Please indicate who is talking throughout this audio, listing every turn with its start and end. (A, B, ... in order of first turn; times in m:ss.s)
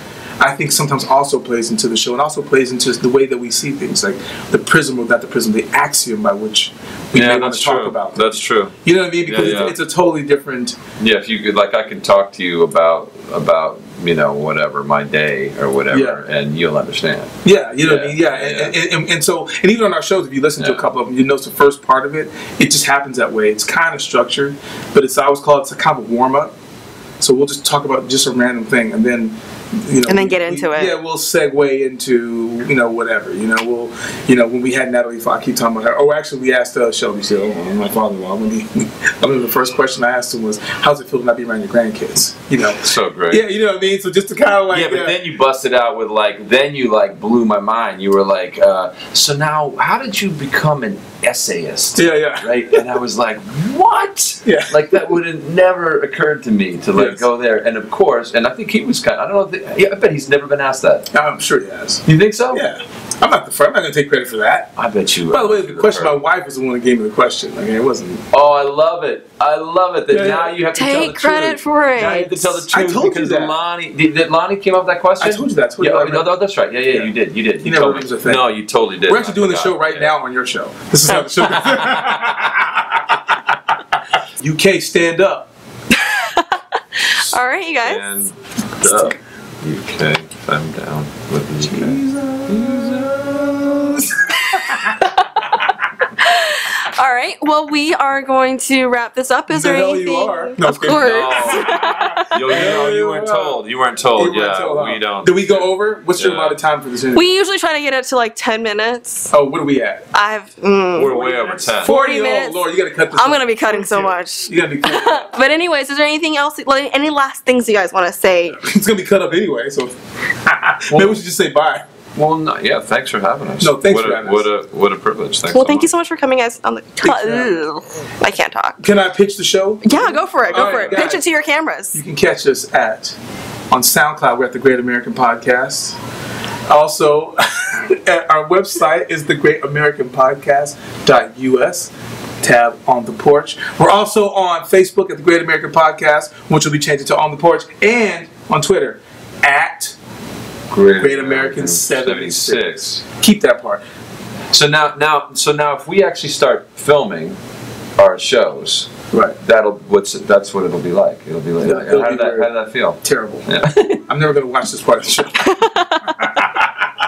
0:00.4-0:10.8 A
0:07.1-0:09.8 B
0:11.0-0:18.8 B
0:15.9-0:16.2 A
0:17.4-0:26.5 A
0:20.6-0:20.9 B
0:27.2-0:45.2 A
0:30.0-0:30.9 C
0:42.8-0:43.5 B
0:44.7-1:01.1 B
0:51.9-0:52.9 A
0:54.4-0:54.8 A
0:56.9-0:57.2 A
1:01.1-1:04.7 A
1:02.0-1:02.7 B
1:04.8-1:06.2 B
1:05.3-1:08.2 A
1:08.3-1:20.1 B
1:10.1-1:10.6 A
1:10.7-1:12.6 C
1:12.6-1:13.6 A
1:15.2-1:18.5 A
1:19.0-1:22.9 A
1:21.0-1:21.6 C
1:21.6-1:22.4 B
1:24.4-1:25.5 A
1:25.9-1:28.0 C
1:27.1-1:34.0 B
1:31.6-1:35.0 A
1:36.2-1:42.6 C
1:39.5-1:43.6 A
1:40.9-1:46.6 B
1:44.1-1:47.3 A
1:47.1-1:49.3 C
1:49.3-1:50.0 A
1:50.1-1:51.2 C
1:50.9-1:52.0 B
1:51.1-1:55.2 A
1:51.8-1:58.6 C
1:58.5-2:01.8 A
2:00.9-2:01.2 B
2:02.1-2:05.9 B
2:03.6-2:04.5 A
2:05.5-2:08.8 C
2:07.0-2:07.6 A
2:08.8-2:11.2 A
2:09.8-2:12.0 C
2:11.9-2:13.1 A
2:13.7-2:16.0 A
2:16.7-2:21.9 A
2:22.4-2:29.9 A
2:30.7-2:33.0 B
2:31.0-2:33.8 A
2:34.5-2:37.4 B
2:38.0-2:38.9 B
2:39.1-2:39.4 A
2:39.4-2:44.0 B
2:41.6-2:43.5 A
2:44.0-2:46.9 A
2:45.4-2:46.3 C